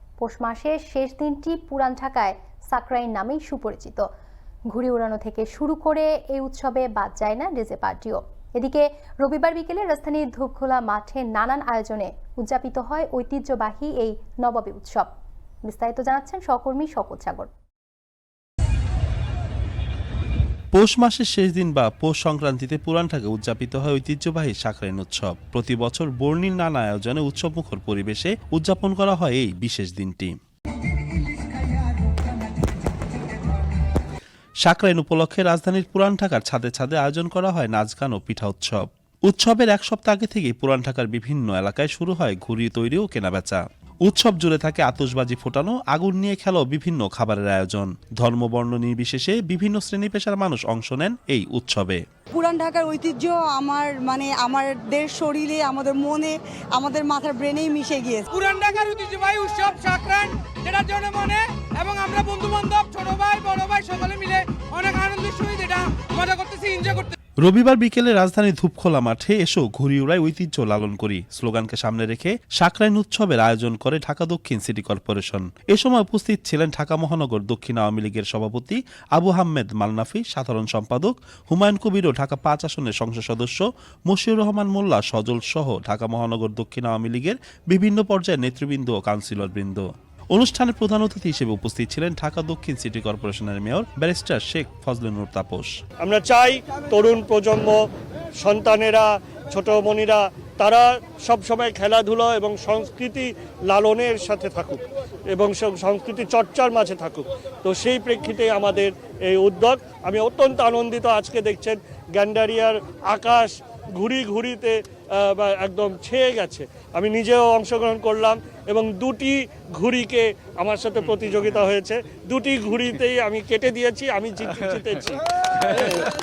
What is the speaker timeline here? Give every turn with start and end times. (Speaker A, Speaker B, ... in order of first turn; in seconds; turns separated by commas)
Speaker A: 0.2-4.1, Speaker A: 4.7-15.1, Speaker A: 15.6-17.5, Speaker B: 20.7-30.4, Speaker B: 34.6-52.0, Speaker C: 52.3-58.3, Speaker D: 58.3-67.2, Speaker B: 67.4-95.7, Speaker E: 96.0-97.8, Speaker E: 98.4-126.0